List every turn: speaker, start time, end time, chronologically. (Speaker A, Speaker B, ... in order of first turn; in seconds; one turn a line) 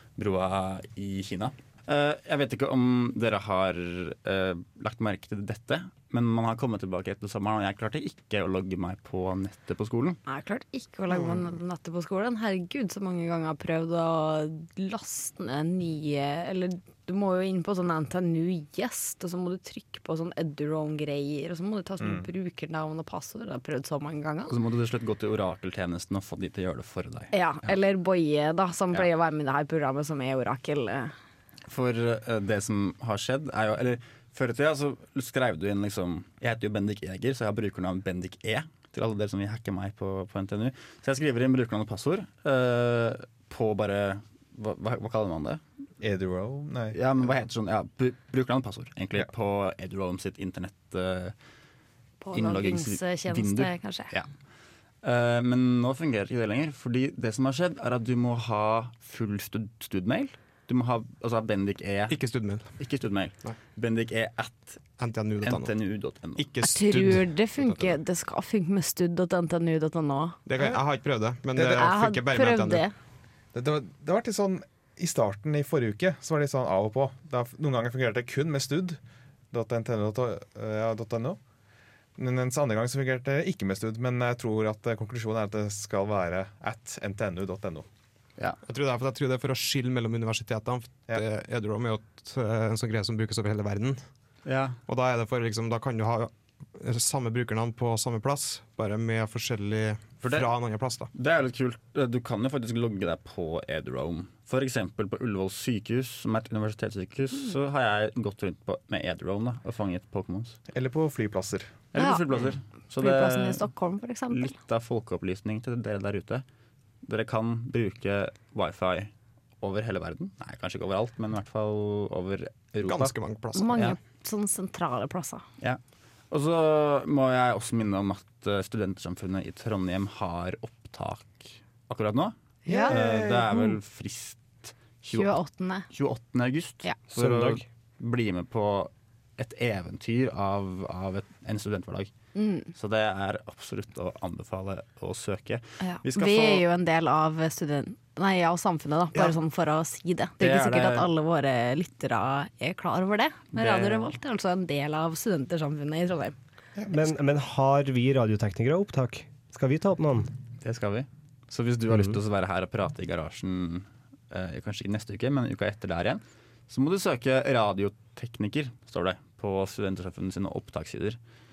Speaker A: 0.1-10.2
Speaker B: 10.3-24.6
Speaker A: 24.5-27.7
Speaker B: 27.3-31.1
Speaker A: 31.7-45.6
Speaker C: 46.0-47.0
Speaker A: 46.9-51.3
Speaker B: 52.2-54.1
Speaker A: 52.3-54.3
Speaker A: 55.0-62.2
Speaker D: 62.1-62.6
Speaker A: 62.8-66.5
Speaker D: 65.0-65.7
Speaker D: 66.3-67.9
Speaker B: 66.6-70.4
Speaker D: 70.5-72.8
Speaker C: 71.5-71.9
Speaker B: 71.8-72.9
Speaker C: 73.5-79.0
Speaker C: 79.5-81.4
Speaker C: 82.2-87.8
Speaker D: 88.6-94.0
Speaker A: 94.4-94.8
Speaker D: 94.9-101.1
Speaker A: 100.2-100.5
Speaker A: 101.1-110.6
Speaker C: 110.7-111.7
Speaker A: 111.9-113.7
Speaker B: 111.9-112.2
Speaker B: 113.0-114.5
Speaker A: 114.3-116.4
Speaker A: 117.0-123.1
Speaker D: 122.8-123.8
Speaker B: 123.5-125.4
Speaker A: 126.3-135.3
Speaker B: 132.7-133.0
Speaker C: 132.7-133.4
Speaker B: 135.1-135.9
Speaker A: 135.9-142.1
Speaker E: 137.1-137.6
Speaker B: 142.3-142.7
Speaker A: 142.7-146.6
Speaker B: 145.8-156.3
Speaker A: 150.4-151.1
Speaker A: 153.5-154.1
Speaker C: 156.8-157.0
Speaker E: 156.9-160.3
Speaker A: 160.6-171.2